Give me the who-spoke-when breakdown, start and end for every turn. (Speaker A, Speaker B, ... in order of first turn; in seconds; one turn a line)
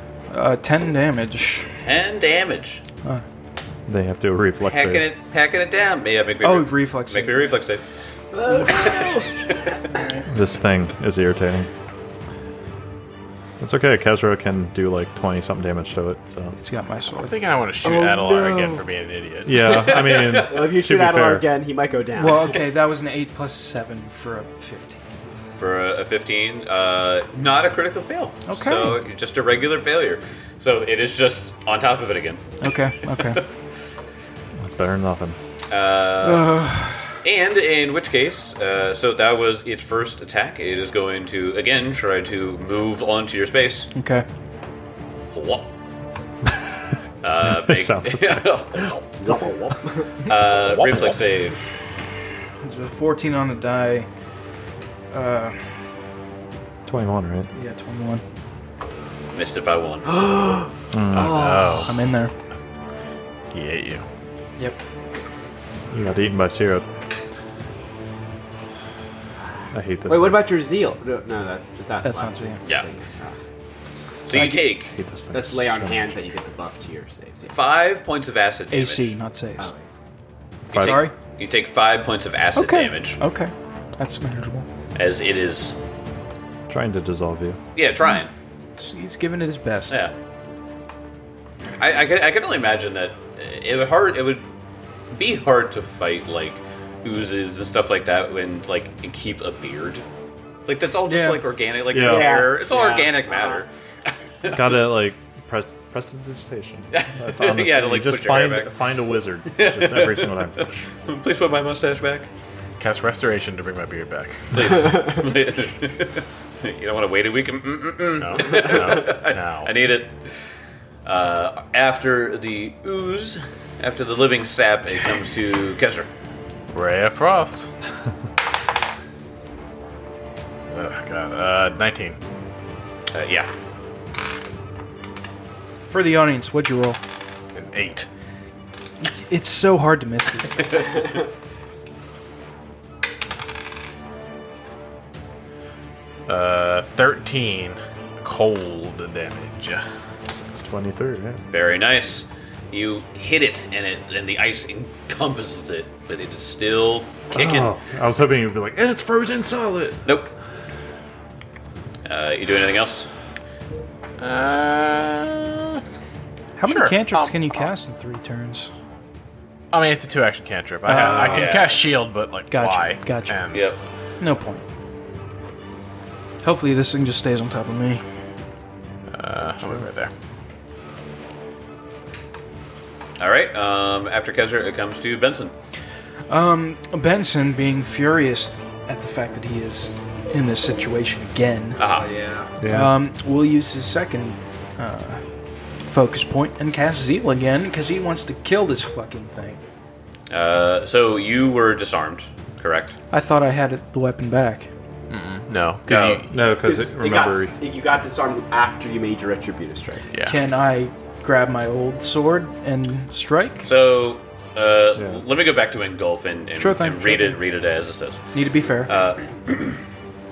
Speaker A: 0.3-1.7
Speaker B: 1.8-2.8
Speaker C: 3.9-5.0
Speaker B: 4.6-7.8
Speaker A: 6.4-7.6
Speaker D: 8.3-9.3
Speaker B: 8.8-9.7
Speaker A: 9.9-10.2
Speaker C: 10.3-11.7
Speaker C: 13.6-16.6
Speaker A: 16.6-17.4
Speaker E: 17.2-19.8
Speaker D: 17.8-18.8
Speaker C: 19.4-21.5
Speaker B: 19.7-20.5
Speaker D: 20.4-22.6
Speaker A: 22.1-25.0
Speaker B: 25.6-32.4
Speaker A: 28.5-29.0
Speaker A: 32.6-33.4
Speaker B: 33.2-33.4
Speaker C: 34.6-35.4
Speaker B: 35.7-36.6
Speaker A: 36.2-37.1
Speaker B: 37.2-43.9
Speaker A: 43.9-44.2
Speaker B: 45.3-45.7
Speaker B: 47.2-49.0
Speaker C: 47.4-49.0
Speaker D: 49.2-50.3
Speaker B: 50.3-51.6
Speaker A: 52.6-54.1
Speaker A: 55.1-55.6
Speaker C: 56.9-57.5
Speaker A: 57.5-58.2
Speaker B: 59.3-60.2
Speaker D: 60.2-61.9
Speaker C: 60.9-61.5
Speaker E: 61.1-61.9
Speaker A: 61.8-62.3
Speaker E: 63.5-64.0
Speaker C: 65.9-66.8
Speaker C: 69.7-70.5
Speaker D: 70.1-73.3
Speaker A: 72.0-72.6
Speaker B: 74.3-75.0
Speaker A: 74.3-74.7
Speaker C: 74.3-76.1
Speaker D: 75.3-77.6
Speaker B: 77.4-79.1
Speaker A: 78.7-79.7
Speaker D: 79.6-80.0
Speaker B: 80.7-83.2
Speaker C: 80.7-81.0
Speaker A: 80.7-81.1
Speaker A: 82.5-84.7
Speaker B: 84.9-85.8
Speaker C: 86.7-87.6
Speaker B: 87.7-88.3
Speaker A: 88.8-90.0
Speaker B: 91.8-94.5
Speaker B: 95.1-100.0
Speaker B: 100.7-103.7
Speaker A: 101.1-101.5
Speaker C: 101.9-102.4
Speaker D: 102.0-103.6
Speaker B: 104.4-104.8
Speaker C: 104.5-110.6
Speaker B: 106.9-108.8
Speaker B: 109.5-112.3
Speaker E: 112.8-114.5
Speaker B: 114.5-120.2
Speaker E: 118.2-119.7
Speaker B: 121.0-126.1
Speaker E: 126.7-127.7
Speaker E: 130.7-132.2
Speaker B: 133.1-133.5
Speaker A: 135.9-137.0
Speaker E: 137.5-138.1
Speaker A: 139.0-141.2
Speaker E: 146.3-149.8
Speaker C: 150.3-151.4
Speaker B: 151.5-157.7
Speaker C: 157.3-160.0
Speaker B: 160.0-160.3
Speaker B: 162.0-163.1
Speaker E: 164.2-165.8
Speaker A: 166.6-168.7
Speaker E: 166.7-167.7
Speaker E: 169.7-173.6
Speaker A: 170.8-171.6
Speaker B: 170.9-171.8
Speaker A: 172.5-173.4
Speaker B: 173.5-173.8
Speaker A: 174.2-174.6
Speaker A: 176.4-178.0
Speaker E: 179.1-180.1
Speaker B: 183.2-185.5
Speaker A: 186.3-191.8
Speaker B: 191.8-192.1
Speaker D: 191.8-192.5
Speaker C: 192.6-192.9
Speaker A: 192.7-195.2
Speaker A: 195.8-199.6
Speaker B: 200.3-202.9
Speaker A: 203.1-204.7
Speaker E: 205.1-206.4
Speaker B: 205.9-206.2
Speaker C: 206.3-207.6
Speaker D: 206.6-210.1
Speaker A: 210.2-213.7
Speaker B: 213.6-218.2
Speaker C: 215.0-215.2
Speaker A: 216.6-217.4
Speaker A: 218.3-218.9
Speaker B: 218.9-219.8